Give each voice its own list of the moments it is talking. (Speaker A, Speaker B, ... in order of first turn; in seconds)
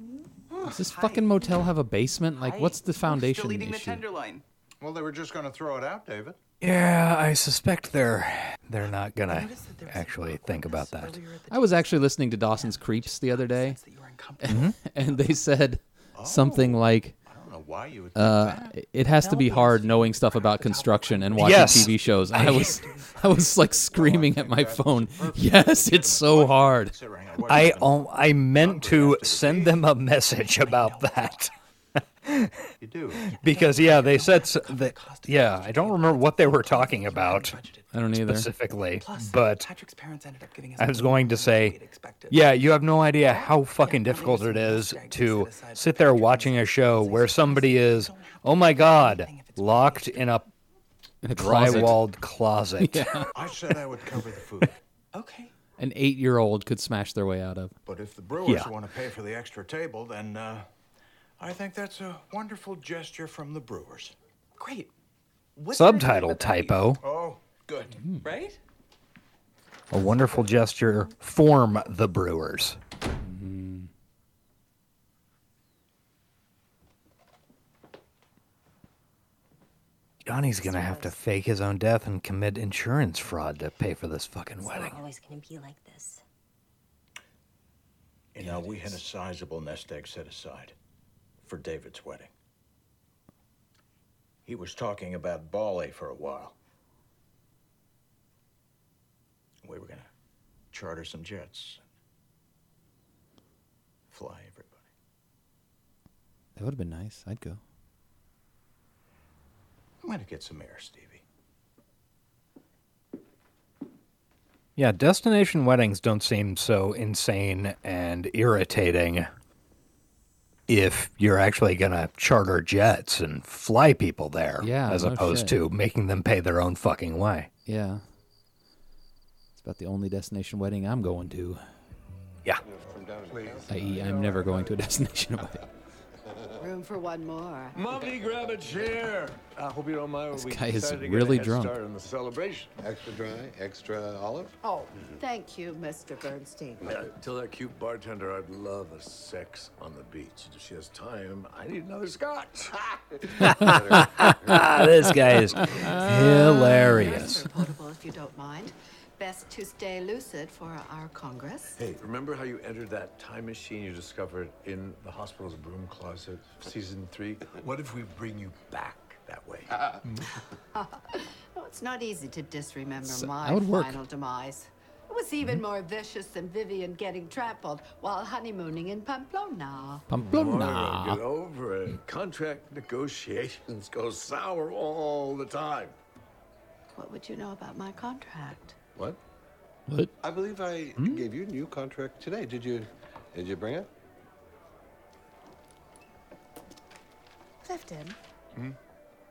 Speaker A: 0.5-1.6, 2.4-4.4, 9.3-14.5, 19.2-21.1, 22.6-23.1, 30.6-31.4, 33.3-37.9, 39.0-42.5, 43.2-50.3, 55.1-55.5, 64.6-64.9, 65.6-67.0, 68.2-68.6
Speaker B: 0.6-4.1, 11.5-13.8, 14.4-17.2, 18.1-27.0, 37.9-38.5, 51.2-52.1, 52.8-53.3, 55.8-57.7, 73.2-73.9, 106.6-107.6, 124.6-125.6, 127.7-128.0, 129.6-131.7, 133.7-135.7, 140.3-141.8, 173.0-174.0, 180.1-181.2
Speaker C: 4.8-6.4, 16.1-18.8, 23.8-29.8, 32.8-33.3, 53.3-54.8, 57.9-60.7, 61.4-64.2, 67.0-68.0, 88.3-90.8, 91.4-92.3, 94.5-96.6, 99.6-100.1, 100.7-101.8, 104.1-104.8, 110.0-111.2
Speaker D: 6.6-11.2, 14.5-14.8, 21.4-22.8, 27.5-31.5, 32.2-37.6, 38.1-39.7, 40.8-41.8, 42.3-50.5, 51.4-53.2, 58.4-58.7, 65.7-67.0, 69.9-72.8, 80.3-85.0, 114.8-119.3, 120.7-127.5, 153.4-157.4
Speaker E: 80.6-81.2, 84.6-86.2
Speaker F: 132.6-134.0, 142.8-144.6, 153.3-156.1, 190.2-193.9
Speaker G: 133.3-134.9, 137.8-142.7, 146.8-154.7, 161.8-170.3, 180.2-186.0
Speaker H: 136.6-138.1, 144.6-146.8, 155.9-161.8, 170.7-180.1, 187.0-188.8, 197.6-198.2